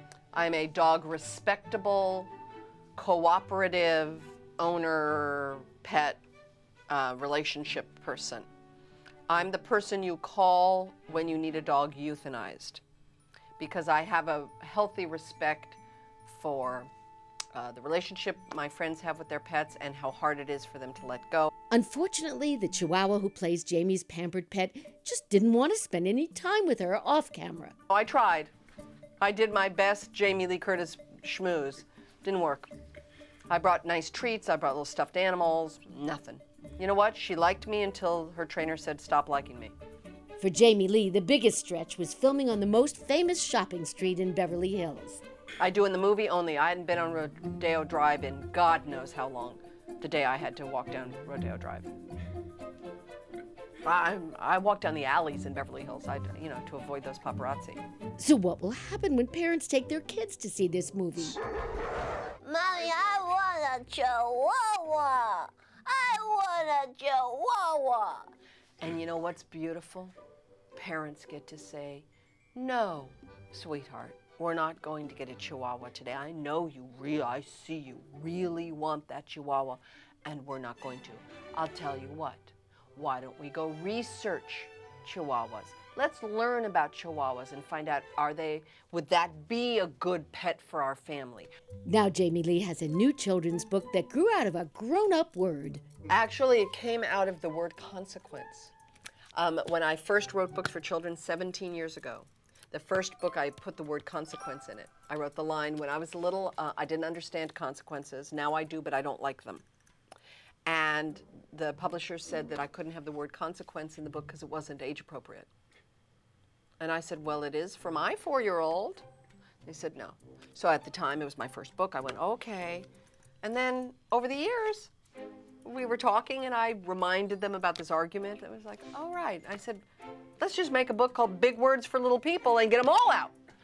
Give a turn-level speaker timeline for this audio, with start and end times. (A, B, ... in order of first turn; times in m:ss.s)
0:00.3-0:02.3 A
0:03.0-0:06.2 A
0:06.9-0:08.5 A
0:09.3-0:12.8 A
0:13.6-0:16.9 A
0:17.5-0:21.5 A
0:21.7-0:27.7 B
0:27.9-0:28.5 A
0:29.2-0:32.7 A
0:33.5-0:39.7 A
0:40.4-0:45.2 B
0:45.6-0:51.9 A
0:53.8-0:57.8 A
0:58.2-1:01.4 B
1:02.4-1:08.3 C
1:08.8-1:10.1 A
1:10.7-1:31.5 A
1:31.9-1:35.8 B
1:36.1-1:38.7 A
1:39.3-1:49.6 A
1:50.6-1:55.5 A
1:56.8-1:59.0 A
1:59.6-2:02.9 A
2:03.4-2:04.9 A
2:05.6-2:09.8 A
2:10.4-2:13.3 A